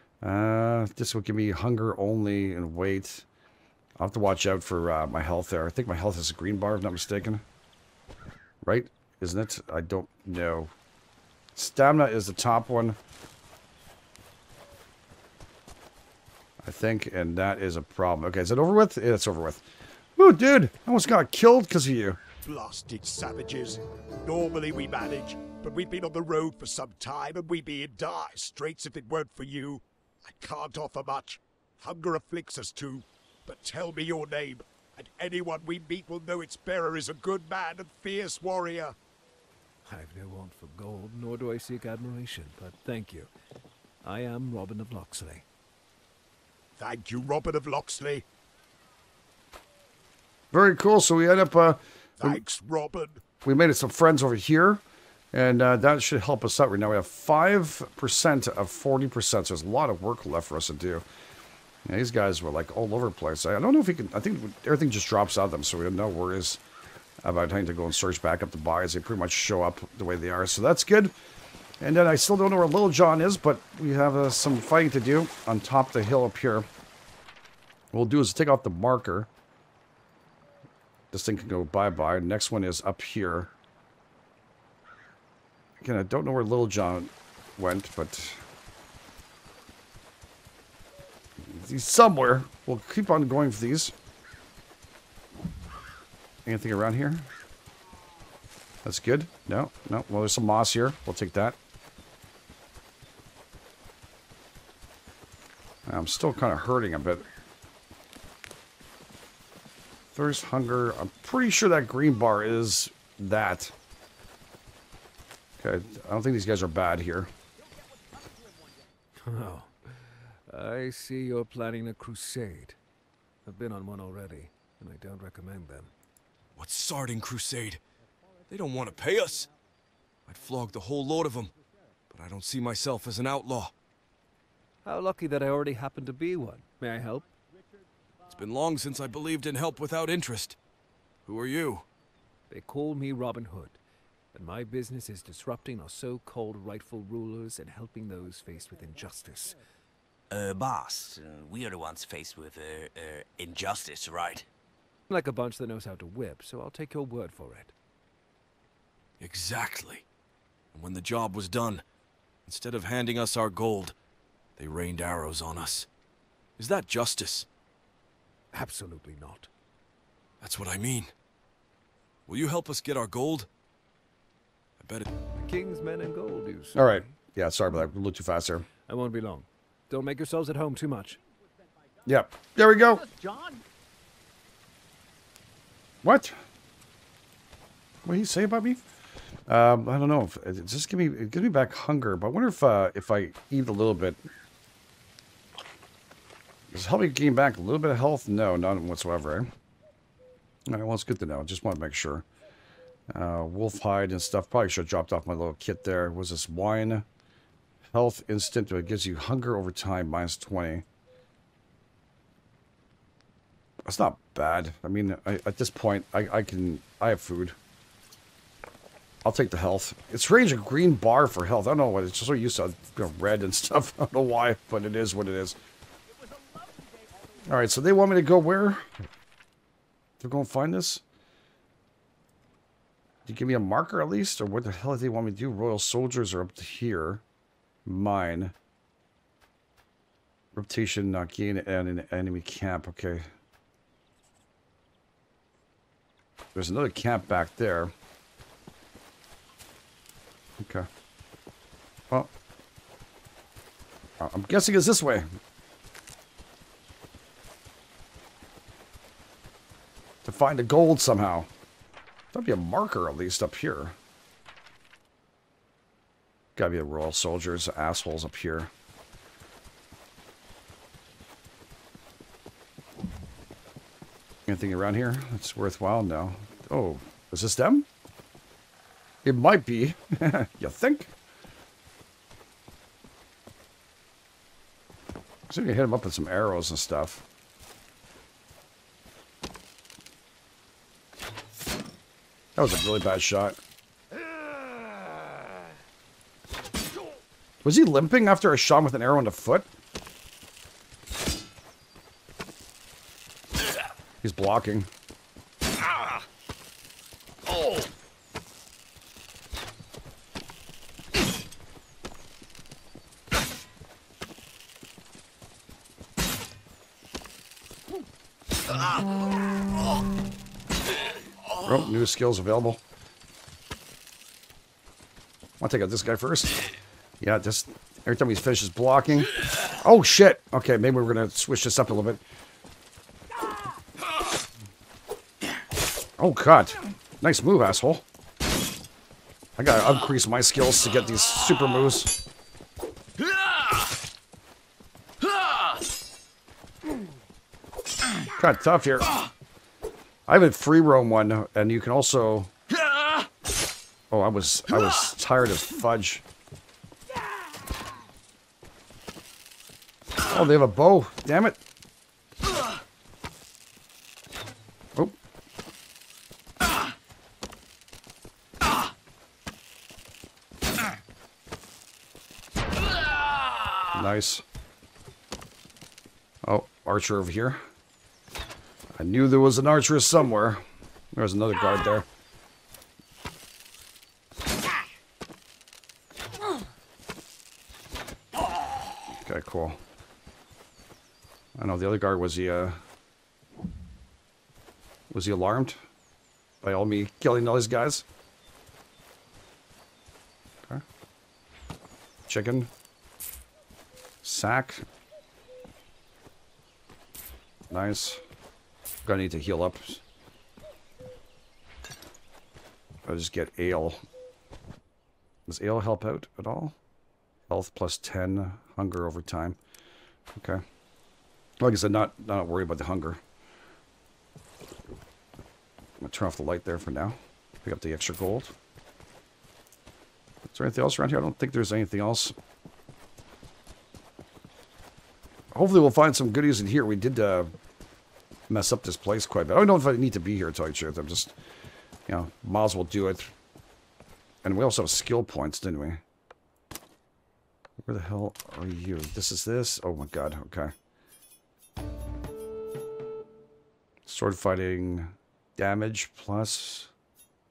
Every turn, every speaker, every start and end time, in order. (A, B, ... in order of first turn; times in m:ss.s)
0:00.2-0:03.2 A
0:04.0-0:07.4 A
0:08.6-0:10.7 A
0:11.6-0:13.0 A
0:16.6-0:19.6 A
0:20.2-0:22.2 A
0:22.4-0:38.9 B
0:39.8-0:43.3 C
0:44.0-0:45.4 C
0:46.8-0:48.2 B
0:50.5-0:52.4 A
0:52.2-0:53.2 B
0:53.4-0:54.8 A
0:55.3-1:01.0 A
1:01.8-1:06.6 A
1:07.2-1:11.1 A
1:11.8-1:16.7 A
1:17.9-1:19.3 A
1:21.1-1:23.5 A
1:25.8-1:28.4 A
1:31.4-1:33.9 A
1:36.4-1:37.3 A
1:38.8-1:41.6 A
1:45.9-1:47.2 A
1:50.1-1:53.7 A
1:55.6-1:57.3 A
1:59.2-2:02.8 C
2:03.4-2:05.9 C
2:06.6-2:07.8 D
2:08.5-2:09.5 D
2:10.3-2:11.5 D
2:12.1-2:13.7 D
2:14.8-2:17.2 C
2:18.3-2:20.6 D
2:21.2-2:21.9 D
2:22.5-2:23.8 C
2:24.3-2:29.6 C
2:30.3-2:34.5 E
2:35.1-2:37.7 C
2:39.2-2:40.0 D
2:40.7-2:41.8 D
2:42.4-2:43.9 D
2:44.6-2:45.9 D
2:46.6-2:47.5 D
2:48.5-2:49.5 C
2:50.4-2:51.1 D
2:52.3-2:53.5 D
2:54.8-2:55.0 D
2:55.3-2:57.1 C
2:56.7-2:58.6 A
2:58.8-3:01.2 C
3:02.0-3:03.0 A
3:06.0-3:06.4 A
3:08.0-3:08.8 A
3:09.5-3:14.2 A
3:16.7-3:19.5 A
3:20.7-3:22.2 A
3:23.1-3:27.0 A
3:27.9-3:30.8 A
3:33.8-3:37.6 A
3:39.2-3:45.6 A
3:47.4-3:48.8 A
3:50.2-3:51.0 A
3:53.2-3:57.2 A
3:57.8-3:58.5 A
4:00.5-4:03.3 A
4:06.5-4:07.9 A
4:10.6-4:10.9 A
4:14.2-4:15.3 A
4:20.2-4:21.5 A
4:22.3-4:24.0 A
4:26.6-4:28.7 A
4:34.5-4:37.9 A
4:39.2-4:41.1 A
4:45.5-4:47.2 A
4:52.6-4:53.6 A
4:57.6-4:59.7 A
5:04.2-5:04.9 A
5:21.6-5:22.8 A
5:25.6-5:26.5 A
5:27.2-5:32.2 A
5:36.2-5:38.0 A
5:39.6-5:42.1 A
5:48.3-5:49.1 A
5:50.3-5:52.5 A
5:54.1-5:56.2 A
6:00.3-6:01.6 A
6:13.9-6:14.4 A
6:16.4-6:17.6 A
6:19.0-6:22.0 A
6:29.1-6:29.8 A
6:31.6-6:32.8 A
6:35.1-6:35.8 A
6:36.6-6:38.0 A
6:42.3-6:42.7 A
6:44.2-6:44.8 A
6:47.7-6:48.2 A
6:49.0-6:50.0 A
6:53.0-6:54.0 A
6:55.5-6:56.8 A
6:57.5-6:59.6 A
7:00.4-7:00.6 A
7:01.6-7:03.2 A
7:06.0-7:08.5 A
7:10.5-7:12.3 A
7:15.5-7:17.5 A
7:18.5-7:21.3 A
7:22.1-7:23.3 A
7:24.4-7:26.0 A
7:27.8-7:30.7 A
7:34.0-7:36.9 A